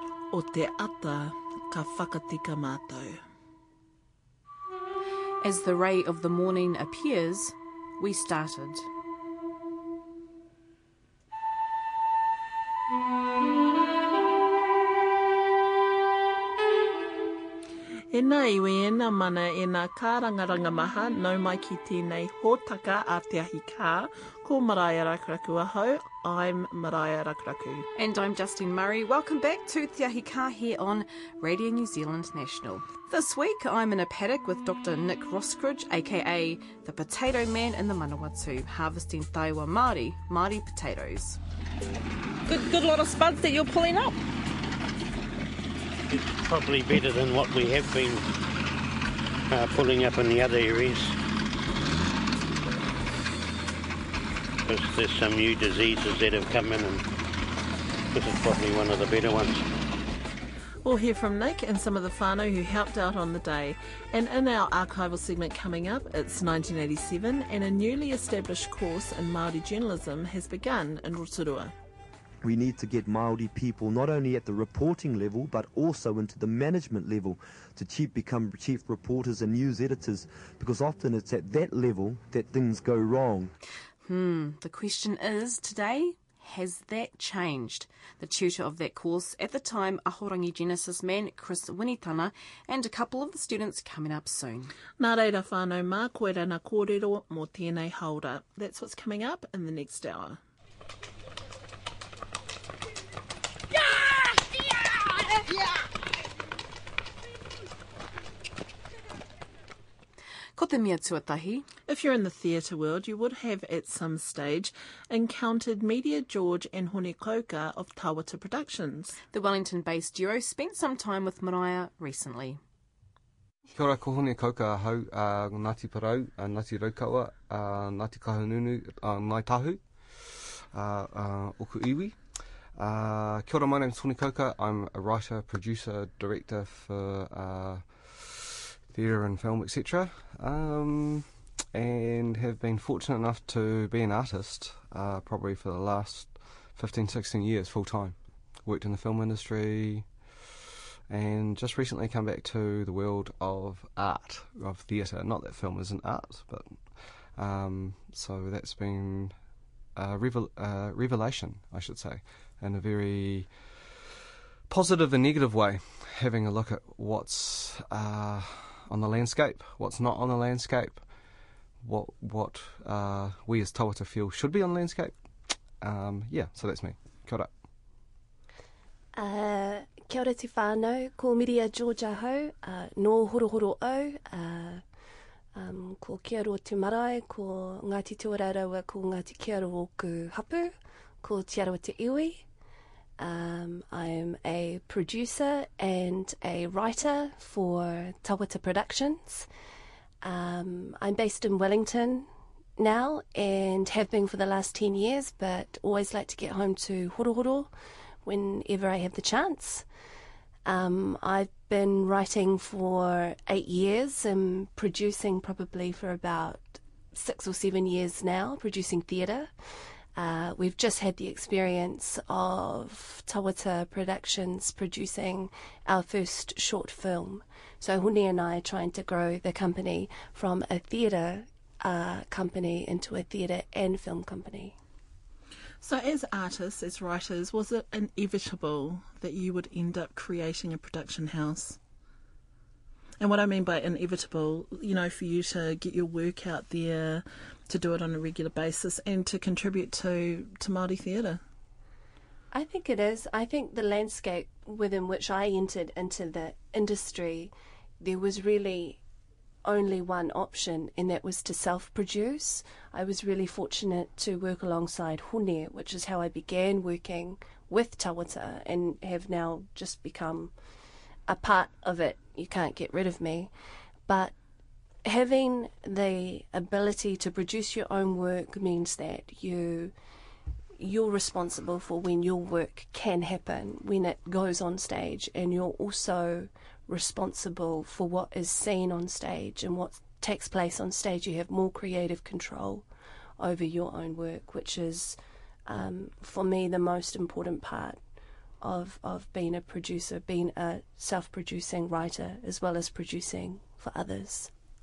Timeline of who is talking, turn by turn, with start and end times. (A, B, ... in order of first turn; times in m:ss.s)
0:00.3-0:03.2 A
0:05.4-0:08.9 B
0:18.1-0:27.9 A
0:28.0-0:41.4 B
0:42.5-0:44.2 B
0:46.1-0:48.3 C
0:49.5-0:51.2 C
0:54.6-0:57.0 C
0:58.1-0:59.7 C
1:00.8-1:11.7 A
1:12.4-1:23.5 D
1:24.0-1:34.7 B
1:35.0-1:40.4 A
1:50.6-1:51.6 B
1:51.9-1:59.2 A
1:59.3-2:02.6 B
2:03.7-2:12.2 E
2:12.8-2:30.1 E
2:31.1-2:36.8 E
2:37.4-2:39.4 E
2:40.0-2:43.5 E
2:44.7-2:51.0 E
2:51.8-2:55.1 E
2:55.8-2:57.5 E
2:59.2-3:04.8 F
3:05.5-3:12.5 F
3:13.2-3:19.5 F
3:20.2-3:27.7 F
3:28.2-3:29.9 F
3:30.7-3:39.5 F
3:40.2-3:54.8 F
3:55.8-4:01.8 A
4:03.2-4:11.4 A
4:12.5-4:19.0 F
4:19.6-4:30.5 F
4:31.3-4:33.5 F
4:34.1-4:34.4 F
4:35.0-4:39.9 F
4:40.8-4:52.8 F
4:53.4-4:58.0 F
4:58.6-5:04.5 F